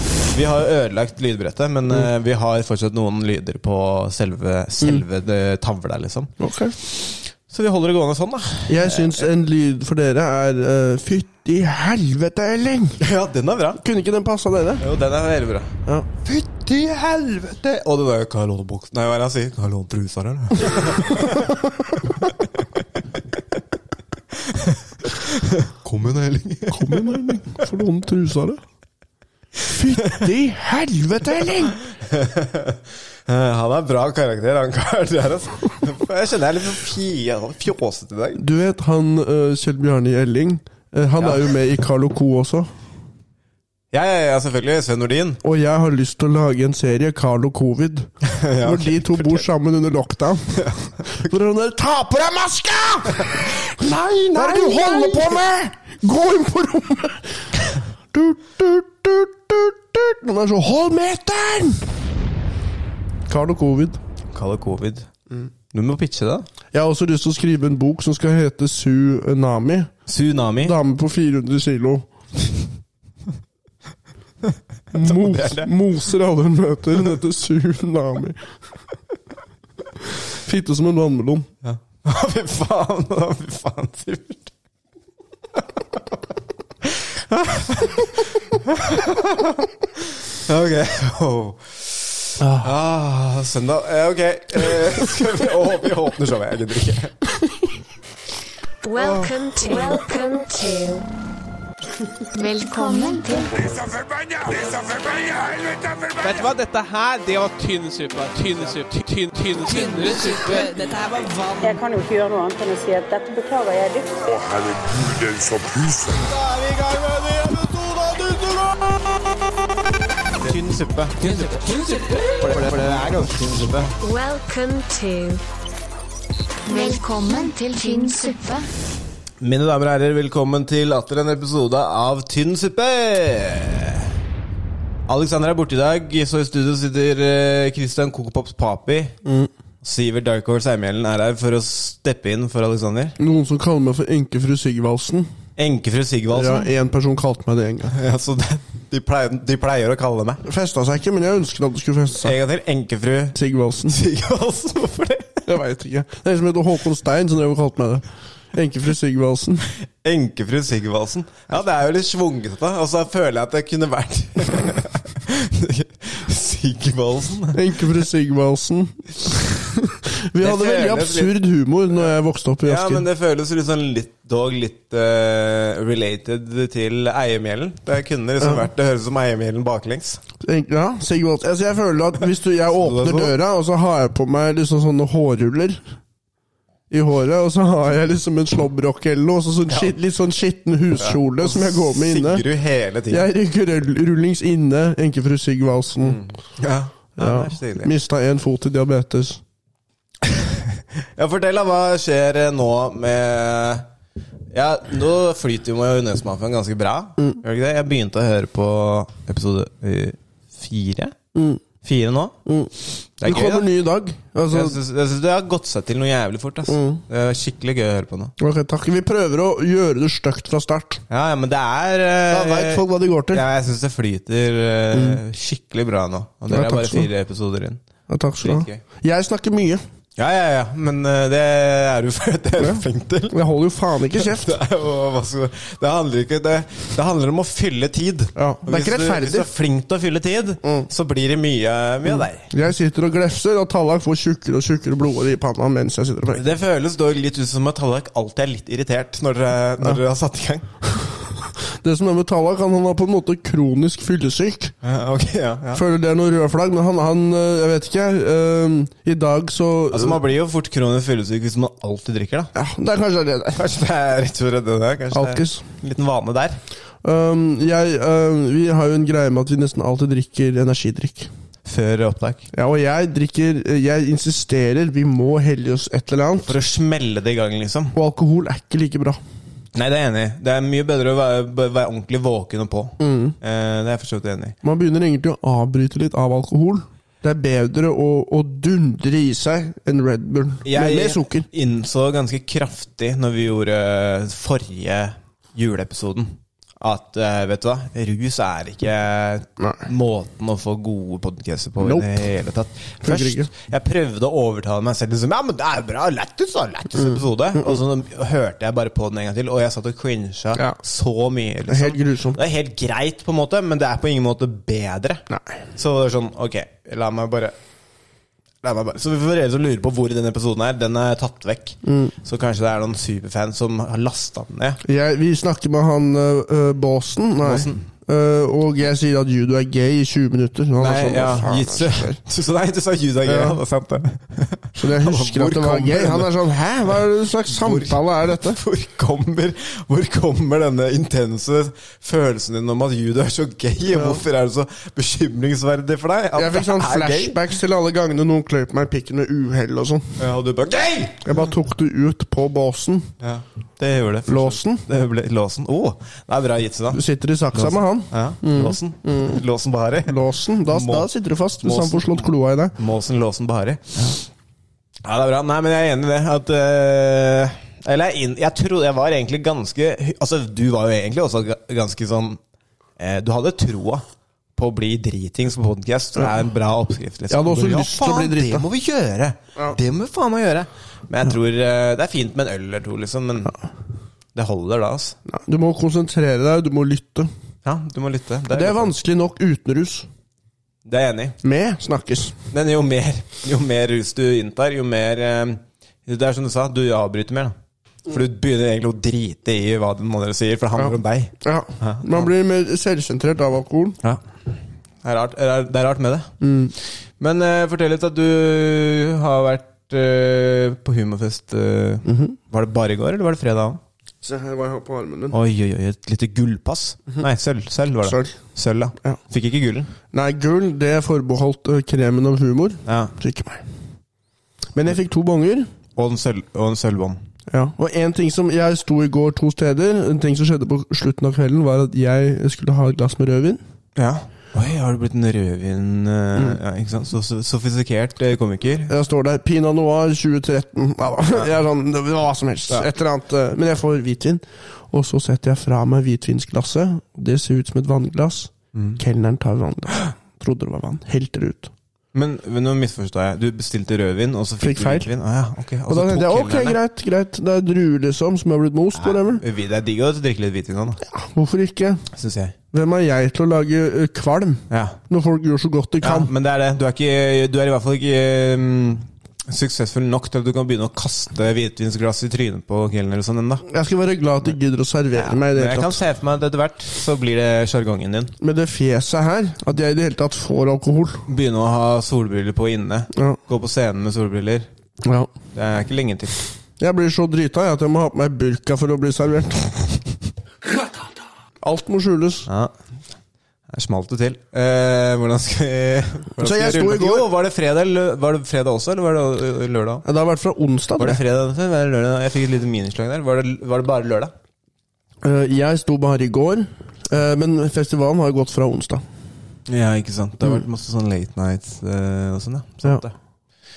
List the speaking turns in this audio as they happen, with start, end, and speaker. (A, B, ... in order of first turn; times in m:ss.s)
0:00.3-0:06.3 A
0:06.4-0:06.7 B
0:06.8-0:09.2 A
0:08.7-0:13.0 B
0:13.0-0:13.8 A
0:13.8-0:14.8 B
0:14.8-0:21.5 A
0:24.5-0:27.3 A
0:26.7-0:28.6 B
0:29.6-0:31.8 B
0:32.1-0:38.4 A
0:38.4-0:42.7 B
0:41.2-0:41.4 A
0:43.9-0:45.4 A
0:45.4-0:48.1 B
0:48.2-0:49.4 A
0:48.6-1:01.9 B
0:53.8-0:55.0 A
1:03.3-1:04.0 B
1:04.3-1:05.1 A
1:05.7-1:06.4 A
1:06.7-1:09.9 B
1:10.1-1:10.8 A
1:10.6-1:12.1 B
1:14.5-1:15.7 A
1:14.9-1:18.4 B
1:20.2-1:21.5 B
1:21.6-1:24.5 A
1:26.8-1:29.6 A
1:30.1-1:37.2 A
1:32.4-1:32.7 B
1:38.8-1:41.0 C
1:42.3-1:43.7 C
1:43.8-1:46.1 D
1:46.2-1:51.7 E
1:51.6-1:54.3 F
1:54.2-1:56.3 D
1:56.3-1:58.7 A
2:00.4-2:03.9 A
2:01.3-2:02.0 E
2:02.6-2:03.1 E
2:04.0-2:05.4 C
2:06.6-2:08.7 C
2:09.4-2:14.1 A
2:15.1-2:19.2 A
2:19.2-2:19.5 B
2:19.8-2:23.2 A
2:23.2-2:25.3 B
2:25.6-2:26.7 A
2:26.3-2:28.0 B
2:27.9-2:30.4 A
2:30.4-2:32.3 B
2:32.2-2:35.5 A
2:33.3-2:34.0 B
2:35.4-2:39.6 B
2:40.0-2:47.6 A
2:47.5-2:53.0 B
2:50.4-2:51.4 A
2:52.6-3:00.2 A
2:58.4-2:58.7 B
3:00.4-3:05.8 B
3:02.8-3:03.3 A
3:06.9-3:12.4 B
3:09.7-3:09.9 A
3:11.0-3:13.3 A
3:13.1-3:16.2 B
3:16.0-3:17.9 A
3:17.2-3:19.4 B
3:20.2-3:23.9 A
3:24.5-3:31.2 A
3:31.3-3:31.6 B
3:31.8-3:32.4 A
3:32.4-3:34.8 B
3:33.2-3:33.7 A
3:34.5-3:38.3 A
3:36.7-3:37.0 B
3:38.4-3:41.0 B
3:41.1-3:47.8 A
3:42.3-3:43.4 B
3:44.9-3:45.2 B
3:46.5-3:47.1 B
3:48.1-3:49.8 B
3:48.4-3:48.8 A
3:50.2-3:53.4 A
3:52.6-3:54.5 B
3:54.1-4:02.5 A
3:58.4-3:59.5 B
4:02.2-4:06.4 B
4:06.3-4:10.7 A
4:11.0-4:14.7 B
4:14.8-4:15.8 A
4:15.7-4:20.2 B
4:19.9-4:22.5 A
4:22.5-4:23.6 B
4:23.5-4:26.6 A
4:25.1-4:25.6 B
4:27.0-4:31.3 B
4:31.6-4:32.5 A
4:32.5-4:36.5 B
4:36.4-4:37.9 A
4:37.9-4:39.2 B
4:39.7-4:44.6 A
4:43.0-4:43.4 B
4:44.6-4:51.5 B
4:50.6-5:15.2 A
5:01.8-5:02.2 B
5:03.0-5:03.5 B
5:07.0-5:07.8 B
5:11.7-5:12.4 B
5:15.7-5:17.5 A
5:18.6-5:24.8 A
5:21.8-5:22.1 B
5:24.8-5:32.2 B
5:27.4-5:27.9 A
5:30.8-5:36.3 A
5:33.2-5:33.6 B
5:34.8-5:38.6 B
5:37.5-5:47.4 A
5:43.9-5:44.2 B
5:46.4-5:50.2 B
5:50.2-5:51.3 A
5:51.2-5:53.1 B
5:53.2-5:57.0 A
5:54.3-5:54.8 B
5:56.9-5:59.4 B
5:57.5-6:00.2 A
6:00.1-6:02.7 B
6:00.7-6:01.1 A
6:01.6-6:02.2 A
6:02.8-6:04.2 A
6:05.0-6:12.4 A
6:13.0-6:14.0 A
6:14.6-6:23.6 A
6:17.3-6:18.6 B
6:24.3-6:25.2 A
6:25.3-6:27.3 B
6:27.6-6:28.9 A
6:28.5-6:30.1 B
6:30.8-6:31.4 A
6:31.4-6:32.4 B
6:32.5-6:37.5 A
6:38.0-6:42.3 A
6:40.8-6:44.0 B
6:45.0-6:46.3 A
6:46.4-6:46.7 B
6:47.2-6:53.8 A
6:52.1-6:52.3 B
6:54.2-6:55.4 B
6:55.3-6:59.9 A
6:58.0-6:58.3 B
7:00.1-7:03.6 B
7:02.8-7:03.1 A
7:04.7-7:05.7 B
7:06.0-7:07.2 A
7:07.5-7:13.6 B
7:14.0-7:18.9 A
7:18.9-7:31.7 B
7:32.1-7:36.8 A
7:34.6-7:35.1 B
7:35.9-7:39.4 B
7:38.9-7:41.0 A
7:41.0-7:42.0 B
7:42.1-7:42.6 A
7:42.7-7:46.3 B
7:44.7-7:45.0 A
7:46.0-7:53.6 A
7:53.6-7:56.0 B
7:55.2-7:58.3 A
7:58.4-8:01.2 B
8:01.3-8:04.7 A
8:05.0-8:05.3 B
8:05.5-8:06.4 A
8:06.8-8:10.1 B
8:11.6-8:12.5 B
8:12.5-8:12.7 A
8:13.7-8:20.0 A
8:16.4-8:17.3 B
8:20.0-8:21.2 B
8:21.0-8:24.3 A
8:25.2-8:29.0 B
8:29.7-8:33.1 A